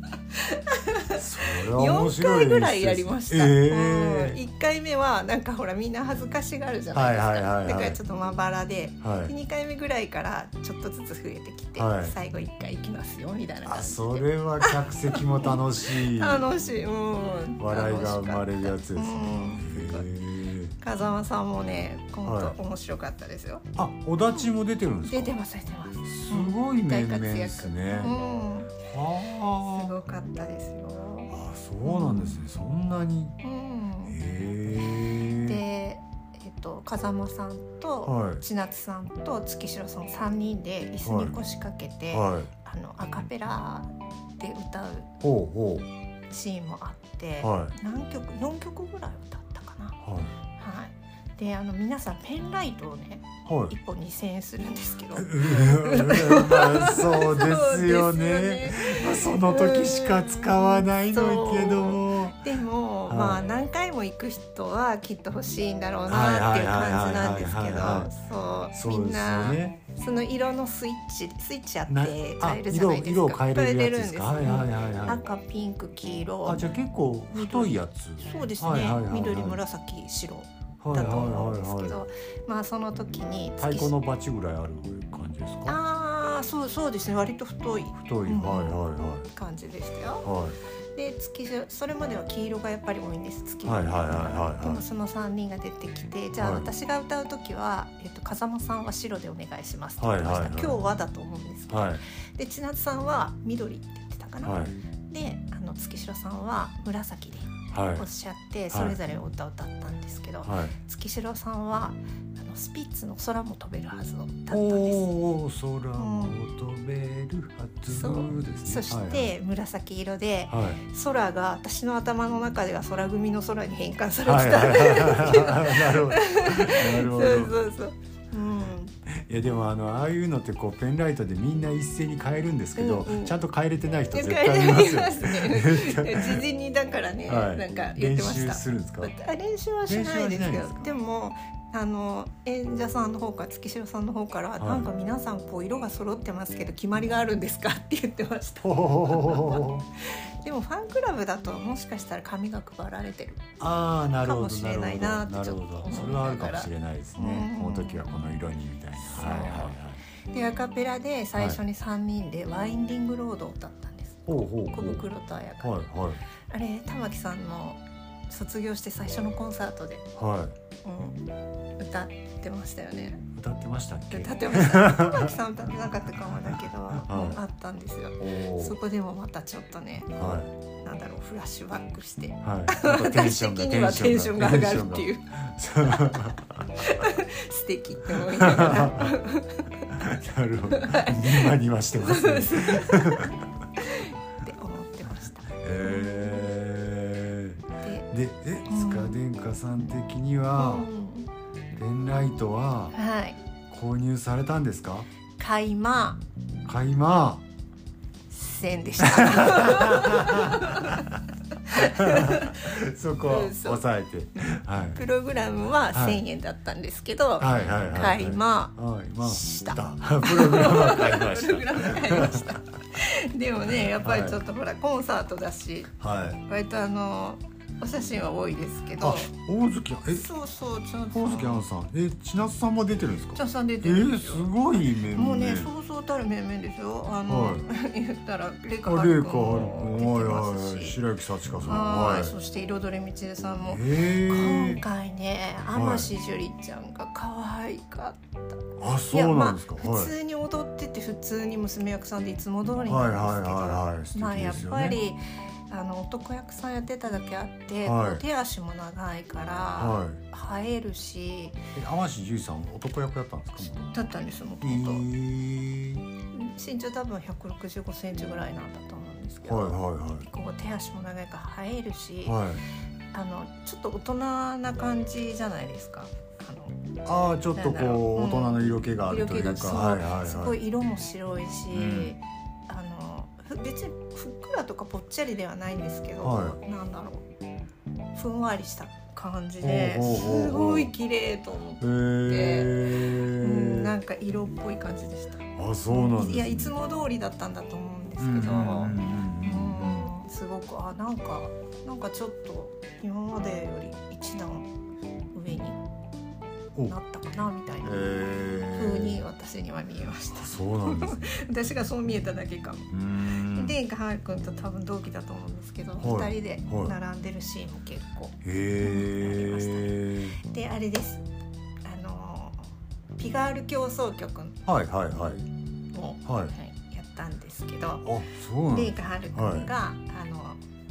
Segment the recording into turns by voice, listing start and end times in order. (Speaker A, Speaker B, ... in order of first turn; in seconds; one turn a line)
Speaker A: 0.3-20.1
Speaker B: 1.1-4.4
Speaker B: 6.9-8.0
Speaker B: 9.0-9.3
Speaker B: 11.8-12.1
Speaker B: 13.6-16.5
Speaker B: 17.6-20.8
Speaker A: 20.8-23.6
Speaker B: 22.2-22.6
Speaker B: 23.8-25.3
Speaker A: 25.1-28.8
Speaker B: 26.1-28.2
Speaker B: 28.9-30.0
Speaker A: 29.6-32.4
Speaker B: 31.3-33.4
Speaker A: 33.4-34.2
Speaker B: 34.1-35.6
Speaker A: 35.2-45.1
Speaker B: 38.0-38.4
Speaker B: 41.0-41.4
Speaker B: 42.1-42.5
Speaker B: 45.2-45.9
Speaker A: 46.3-50.0
Speaker B: 47.4-47.7
Speaker B: 50.0-50.3
Speaker A: 50.6-76.6
Speaker B: 53.5-53.7
Speaker B: 55.1-62.4
Speaker B: 63.1-63.4
Speaker B: 66.1-68.1
Speaker B: 68.7-69.8
Speaker B: 71.9-75.2
Speaker B: 76.5-79.6
Speaker A: 77.3-83.9
Speaker B: 80.8-82.0
Speaker B: 83.6-85.8
Speaker A: 85.7-90.3
Speaker B: 88.0-89.2
Speaker B: 90.2-90.6
Speaker A: 91.0-115.1
Speaker B: 93.6-94.8
Speaker B: 96.4-96.7
Speaker B: 100.0-100.8
Speaker B: 101.7-102.0
Speaker B: 104.4-104.8
Speaker B: 107.7-108.1
Speaker B: 108.7-109.0
Speaker B: 110.5-110.8
Speaker B: 114.5-119.3
Speaker A: 116.0-116.4
Speaker A: 117.9-128.9
Speaker B: 120.5-120.8
Speaker B: 124.2-127.6
Speaker B: 129.1-136.4
Speaker A: 132.8-133.4
Speaker A: 134.1-153.4
Speaker B: 137.3-139.1
Speaker B: 139.9-140.9
Speaker B: 144.6-144.9
Speaker B: 148.6-149.9
Speaker B: 153.6-160.0
Speaker A: 154.2-158.1
Speaker A: 159.0-159.8
Speaker A: 160.3-165.8
Speaker B: 164.3-165.1
Speaker B: 165.6-166.2
Speaker A: 166.5-170.1
Speaker B: 170.2-170.5
Speaker A: 170.8-171.2
Speaker A: 171.8-173.2
Speaker B: 173.3-175.3
Speaker A: 174.1-180.2
Speaker B: 177.0-177.4
Speaker B: 178.2-178.8
Speaker B: 180.2-180.5
Speaker A: 180.8-185.2
Speaker B: 182.4-187.1
Speaker A: 185.8-186.2
Speaker A: 186.8-190.0
Speaker B: 188.2-189.2
Speaker B: 189.9-193.4
Speaker A: 190.7-196.5
Speaker B: 195.6-200.9
Speaker A: 197.8-198.1
Speaker A: 198.7-199.2
Speaker A: 200.6-201.3
Speaker B: 201.8-203.0
Speaker A: 202.9-203.4
Speaker B: 203.7-205.1
Speaker A: 205.4-206.2
Speaker B: 206.6-207.4
Speaker A: 208.3-213.8
Speaker B: 209.0-211.1
Speaker B: 211.7-215.0
Speaker A: 214.3-225.9
Speaker B: 215.9-216.2
Speaker B: 217.4-222.6
Speaker B: 223.9-224.4
Speaker B: 226.0-226.4
Speaker A: 226.4-229.3
Speaker B: 229.0-230.3
Speaker A: 230.1-231.6
Speaker B: 231.1-235.7
Speaker A: 233.4-241.0
Speaker B: 237.2-237.6
Speaker B: 238.8-242.3
Speaker A: 241.6-261.6
Speaker B: 243.7-244.8
Speaker B: 245.7-246.1
Speaker B: 248.8-250.1
Speaker B: 252.9-255.0
Speaker B: 257.8-258.2
Speaker B: 259.8-260.2
Speaker B: 261.8-263.9
Speaker A: 263.9-265.1
Speaker B: 264.6-266.1
Speaker A: 266.3-272.4
Speaker B: 269.4-270.2
Speaker B: 272.2-272.6
Speaker A: 273.1-276.8
Speaker B: 277.1-280.6
Speaker A: 277.5-287.2
Speaker B: 281.7-282.1
Speaker B: 286.2-286.6
Speaker A: 288.1-304.7
Speaker B: 289.6-290.9
Speaker B: 291.8-293.9
Speaker B: 295.6-296.7
Speaker B: 298.2-300.1
Speaker A: 305.3-305.8
Speaker A: 306.9-308.1
Speaker B: 307.8-309.2
Speaker A: 308.7-321.2
Speaker B: 310.3-311.3
Speaker B: 312.9-313.8
Speaker B: 316.0-316.9
Speaker B: 318.4-320.4
Speaker A: 321.8-322.6
Speaker A: 323.2-324.6
Speaker B: 324.6-325.4
Speaker A: 325.9-328.1
Speaker B: 326.2-326.6
Speaker B: 328.1-329.7
Speaker A: 328.7-330.6